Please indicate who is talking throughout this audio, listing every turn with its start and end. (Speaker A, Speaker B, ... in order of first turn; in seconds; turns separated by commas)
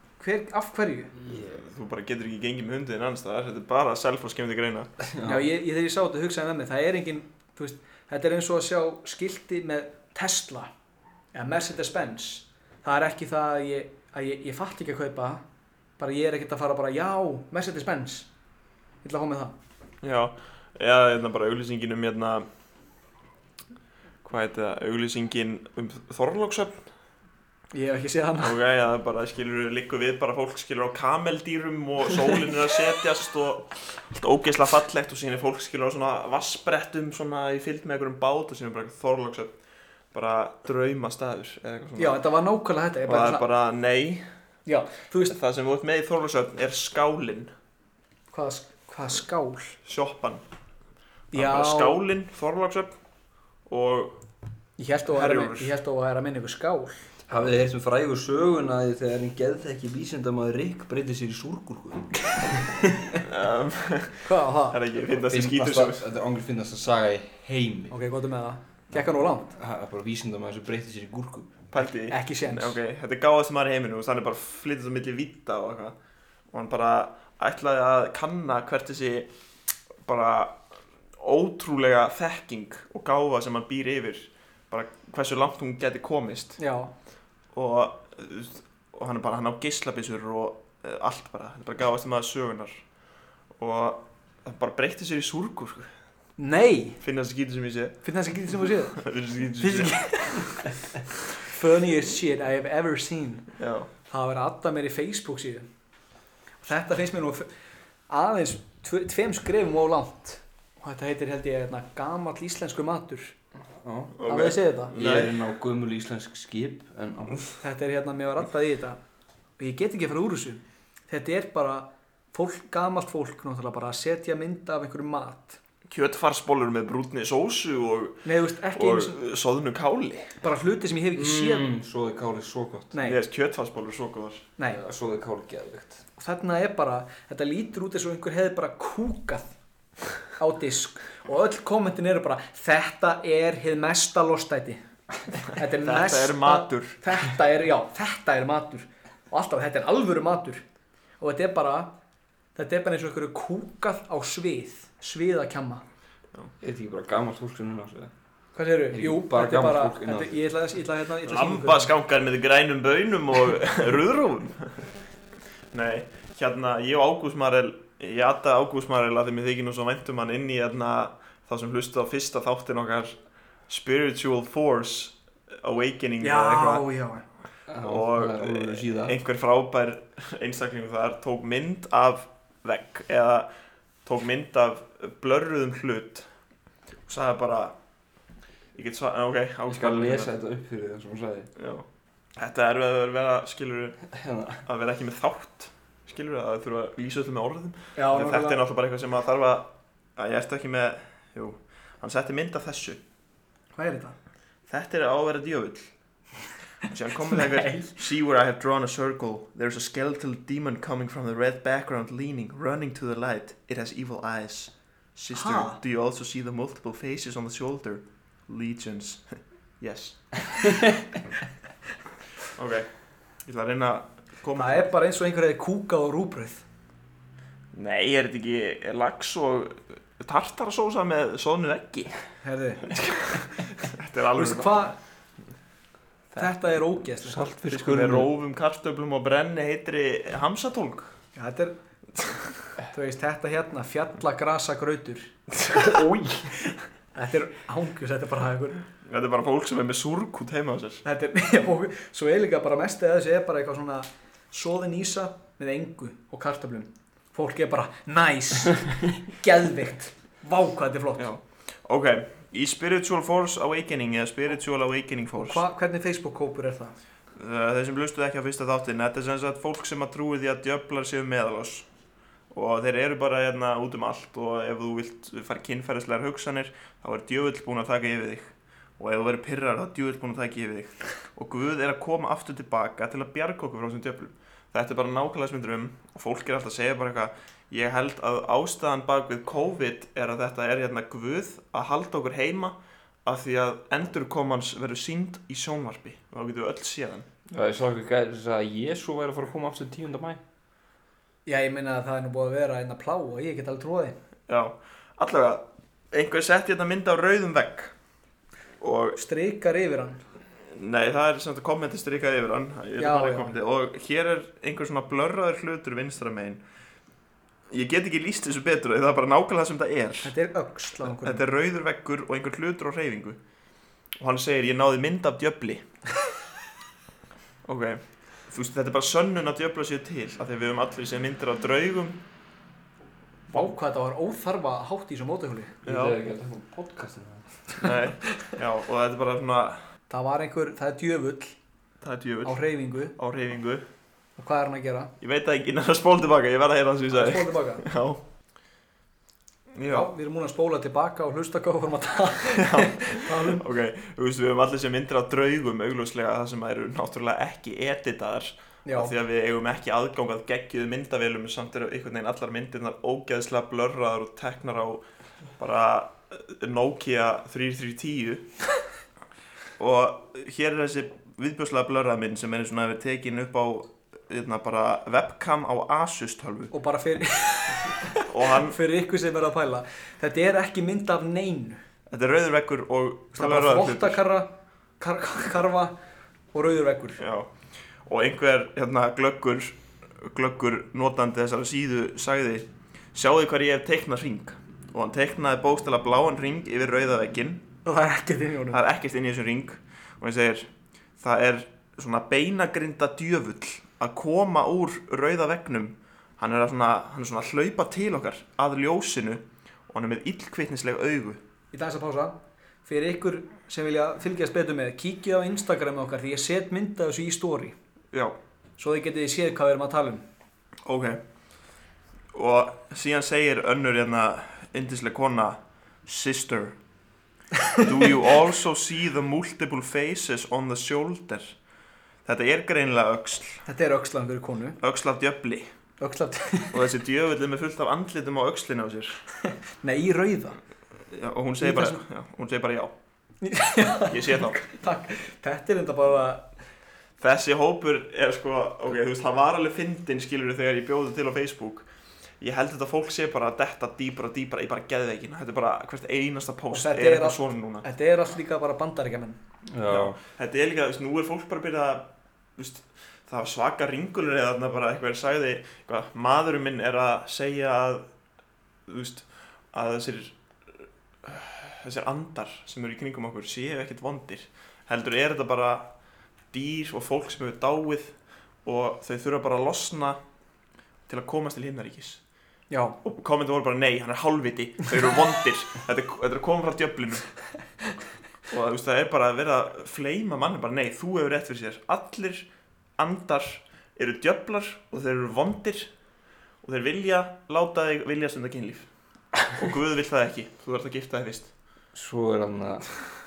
Speaker A: 0.2-1.1, Speaker B: 1.2-1.6, Speaker C: 1.5-4.9, Speaker B: 5.0-5.5, Speaker A: 5.2-10.7, Speaker A: 11.3-15.4, Speaker A: 16.0-18.3, Speaker A: 19.0-19.6, Speaker C: 20.0-22.5, Speaker C: 24.2-26.9, Speaker A: 27.7-28.6, Speaker C: 28.4-39.5, Speaker C: 40.1-42.2, Speaker A: 42.0-43.5, Speaker C: 43.1-44.3, Speaker A: 44.7-45.4, Speaker C: 45.3-47.5, Speaker A: 48.3-49.8, Speaker C: 49.9-50.4, Speaker A: 51.3-52.0, Speaker C: 51.3-52.9, Speaker C: 53.7-54.2, Speaker A: 54.8-57.0, Speaker C: 55.1-55.7, Speaker B: 57.3-63.2, Speaker C: 63.3-66.0, Speaker A: 64.2-64.8, Speaker B: 65.2-68.0, Speaker A: 67.9-69.5, Speaker B: 69.5-71.6, Speaker C: 71.7-76.0, Speaker A: 72.1-72.8, Speaker C: 76.5-79.3, Speaker C: 80.0-80.6, Speaker C: 81.2-86.6, Speaker A: 86.6-86.9, Speaker C: 87.5-92.8, Speaker C: 93.6-95.9, Speaker A: 96.4-97.0, Speaker C: 97.0-98.0, Speaker A: 98.0-99.0, Speaker C: 99.0-100.5, Speaker A: 99.6-100.6, Speaker A: 101.4-103.5, Speaker C: 103.6-103.9, Speaker A: 104.1-105.7, Speaker A: 106.6-107.5, Speaker A: 108.1-113.3, Speaker B: 113.8-114.2, Speaker C: 114.2-115.3, Speaker A: 114.2-115.0, Speaker B: 114.9-117.5, Speaker A: 117.6-119.0, Speaker A: 119.6-125.6, Speaker C: 125.9-130.4, Speaker A: 128.2-129.2, Speaker A: 130.4-131.7, Speaker B: 131.1-132.9, Speaker A: 132.9-133.2, Speaker C: 133.0-134.5, Speaker A: 134.6-134.8, Speaker B: 134.7-136.0, Speaker A: 136.2-139.6, Speaker A: 140.4-150.6, Speaker C: 145.8-147.0, Speaker A: 151.2-152.0, Speaker A: 152.6-155.8, Speaker B: 156.6-158.1, Speaker A: 158.6-161.9, Speaker B: 158.9-160.4, Speaker C: 161.2-164.9, Speaker C: 165.7-176.9, Speaker A: 176.2-177.3, Speaker B: 177.7-179.2, Speaker C: 177.8-183.5, Speaker C: 184.1-186.3, Speaker C: 187.1-187.8, Speaker C: 188.8-190.3, Speaker B: 189.7-191.5, Speaker C: 191.6-191.8, Speaker C: 192.4-194.0, Speaker B: 194.1-194.6, Speaker C: 194.7-203.0, Speaker A: 198.0-198.6, Speaker A: 203.8-204.2, Speaker C: 204.7-205.9, Speaker C: 206.8-220.7, Speaker A: 207.3-207.9, Speaker A: 215.3-215.8, Speaker C: 222.5-222.9, Speaker C: 223.4-224.9, Speaker A: 224.6-226.7, Speaker C: 227.7-232.2, Speaker A: 232.4-233.4, Speaker C: 232.9-234.9, Speaker A: 234.3-235.0, Speaker A: 236.4-237.4, Speaker B: 237.2-238.3, Speaker C: 237.7-241.2, Speaker A: 241.4-241.8, Speaker A: 242.9-245.8, Speaker A: 247.1-248.8, Speaker C: 249.0-251.0, Speaker A: 251.1-261.3, Speaker C: 261.2-265.6, Speaker A: 265.4-267.0, Speaker C: 267.4-271.9, Speaker C: 272.5-297.3, Speaker B: 297.5-300.4, Speaker A: 301.5-304.2, Speaker C: 304.5-307.9, Speaker C: 308.8-309.2, Speaker A: 309.2-310.2, Speaker C: 310.7-316.6, Speaker A: 313.0-313.5, Speaker C: 317.7-320.3, Speaker A: 320.2-321.4, Speaker C: 321.0-323.4, Speaker C: 324.2-325.9, Speaker C: 327.6-332.2, Speaker A: 333.5-335.8, Speaker B: 335.8-337.9, Speaker C: 335.9-336.2, Speaker C: 337.8-339.8, Speaker A: 340.1-341.6, Speaker C: 342.0-342.6, Speaker A: 342.4-343.1, Speaker C: 343.2-343.8, Speaker A: 344.4-345.1, Speaker C: 345.2-348.2, Speaker A: 347.1-347.9, Speaker C: 349.8-350.1, Speaker A: 349.9-353.6, Speaker C: 352.6-365.0, Speaker A: 358.9-359.1, Speaker C: 365.6-368.5, Speaker C: 369.8-376.7, Speaker A: 376.7-381.8, Speaker C: 378.2-378.8, Speaker C: 382.1-384.2, Speaker A: 383.4-386.0, Speaker A: 386.5-387.2, Speaker C: 387.2-387.5, Speaker C: 388.1-397.6, Speaker A: 397.9-398.8, Speaker C: 398.7-411.4, Speaker A: 411.7-417.8, Speaker A: 418.8-420.2, Speaker C: 420.9-421.2, Speaker C: 422.3-426.8, Speaker C: 427.8-431.6, Speaker C: 432.2-433.6, Speaker A: 433.7-434.8, Speaker C: 434.8-435.7, Speaker A: 436.0-436.8, Speaker C: 436.7-439.2, Speaker A: 439.5-440.6, Speaker C: 441.1-442.9, Speaker A: 441.6-442.0, Speaker A: 443.4-446.5, Speaker C: 444.1-444.6, Speaker C: 447.2-451.9, Speaker C: 452.4-457.9, Speaker A: 456.7-459.4, Speaker B: 459.7-460.2, Speaker C: 459.9-468.1, Speaker C: 468.9-470.4, Speaker C: 471.2-475.9, Speaker C: 476.5-480.2, Speaker C: 481.1-482.2, Speaker A: 482.7-483.0, Speaker C: 483.0-487.3, Speaker C: 488.5-492.5, Speaker C: 493.0-495.9, Speaker C: 496.6-498.9, Speaker C: 499.5-501.5, Speaker B: 501.9-502.9